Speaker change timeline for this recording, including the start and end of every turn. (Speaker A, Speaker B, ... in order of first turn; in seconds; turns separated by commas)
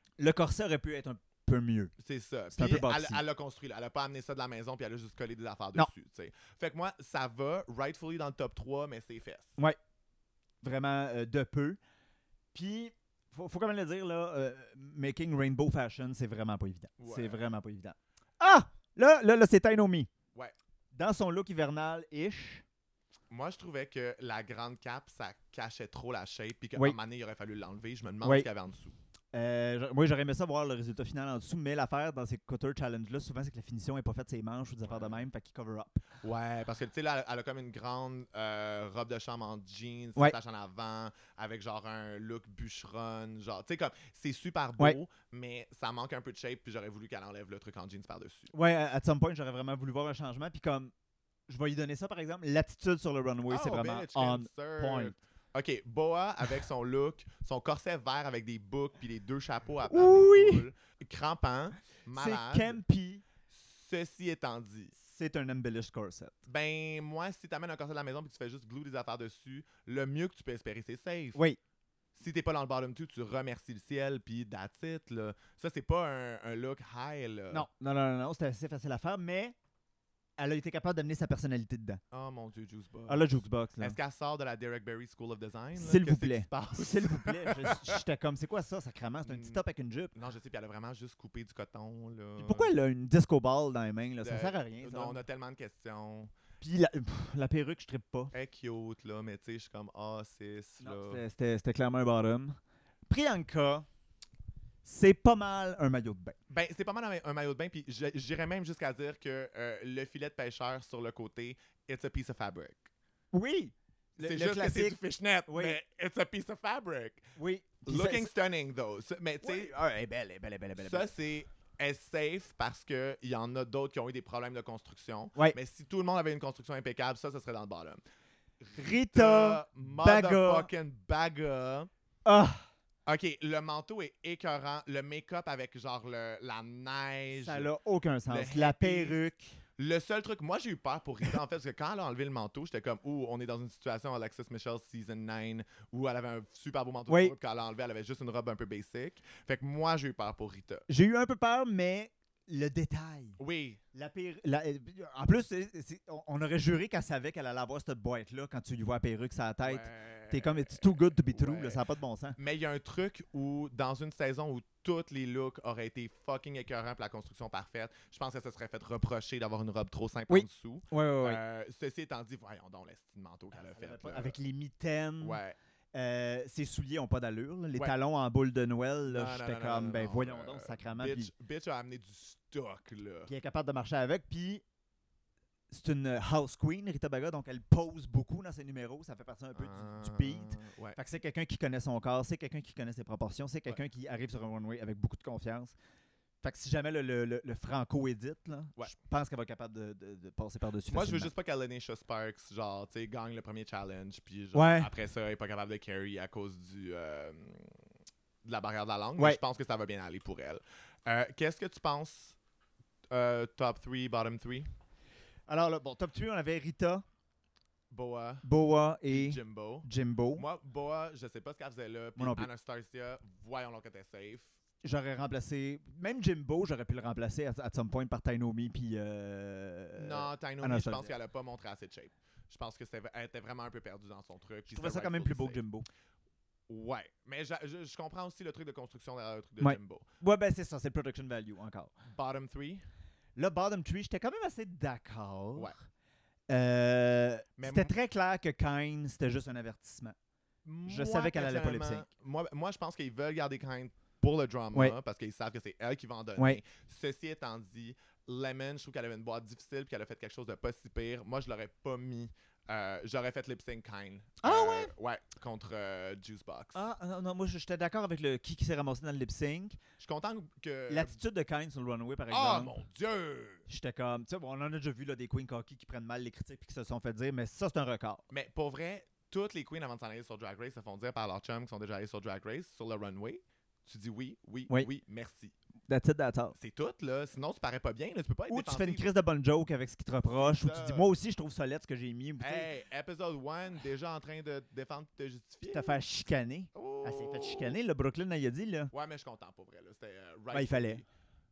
Speaker A: 0.2-1.9, Speaker B: 2.0-9.5, Speaker A: 2.5-3.2, Speaker A: 10.6-11.8, Speaker A: 12.5-20.1, Speaker B: 17.0-17.5, Speaker A: 20.9-22.6, Speaker B: 23.3-28.9, Speaker A: 28.2-28.5, Speaker A: 29.3-36.0, Speaker B: 34.9-35.2, Speaker B: 36.2-48.5, Speaker A: 48.5-50.9, Speaker A: 51.5-55.2, Speaker B: 53.5-62.8, Speaker A: 59.9-60.7, Speaker A: 62.1-63.2, Speaker B: 63.5-64.9, Speaker A: 65.0-66.3, Speaker B: 66.5-71.4, Speaker B: 72.1-77.7, Speaker A: 77.5-79.5, Speaker A: 80.4-82.0, Speaker B: 82.1-88.0, Speaker A: 83.1-84.0, Speaker A: 85.8-90.1, Speaker B: 89.2-89.6, Speaker B: 90.1-92.7, Speaker A: 92.4-95.2, Speaker B: 94.2-96.3, Speaker A: 96.6-98.3, Speaker B: 98.3-101.2, Speaker A: 100.8-102.6, Speaker A: 103.1-103.9, Speaker A: 104.8-106.4, Speaker B: 106.5-112.9, Speaker A: 113.3-115.8, Speaker B: 114.2-119.7, Speaker A: 117.3-118.3, Speaker A: 119.4-121.1, Speaker B: 120.8-128.0, Speaker B: 128.6-131.9, Speaker A: 128.7-130.7, Speaker A: 132.2-132.7, Speaker B: 133.1-137.7, Speaker A: 137.3-139.6, Speaker B: 138.3-139.2, Speaker B: 139.8-150.8, Speaker A: 147.1-147.3, Speaker A: 150.9-153.4, Speaker B: 153.4-153.8, Speaker A: 153.9-162.4, Speaker B: 159.6-161.8, Speaker B: 162.4-174.3, Speaker A: 170.3-171.4, Speaker A: 173.7-175.4, Speaker B: 175.2-175.6, Speaker A: 175.9-181.3, Speaker B: 179.1-183.3, Speaker A: 183.3-184.6, Speaker A: 185.7-195.7, Speaker B: 189.6-191.0, Speaker A: 196.4-201.3, Speaker B: 200.9-207.8, Speaker A: 204.5-204.9, Speaker B: 208.4-212.3, Speaker B: 213.1-214.7, Speaker A: 215.5-217.0, Speaker B: 217.9-218.4, Speaker A: 218.4-220.4, Speaker B: 219.1-224.5, Speaker A: 222.2-222.5, Speaker A: 224.8-231.1, Speaker B: 230.0-235.6, Speaker A: 234.7-235.9, Speaker B: 236.7-240.1, Speaker A: 239.6-241.9, Speaker B: 242.0-242.8, Speaker A: 243.3-245.8, Speaker A: 246.5-250.2, Speaker B: 247.6-247.9, Speaker B: 250.6-266.8, Speaker A: 250.9-252.1, Speaker A: 264.4-264.9, Speaker A: 266.7-269.8, Speaker B: 270.0-271.1, Speaker A: 270.9-272.8, Speaker B: 272.3-273.6, Speaker A: 273.7-278.2, Speaker B: 278.3-285.5, Speaker A: 285.9-286.6, Speaker B: 286.6-289.1, Speaker A: 288.5-292.7, Speaker B: 290.3-291.1, Speaker B: 292.4-296.0, Speaker A: 295.7-298.9, Speaker B: 296.7-297.8, Speaker B: 298.9-301.1, Speaker A: 300.5-301.0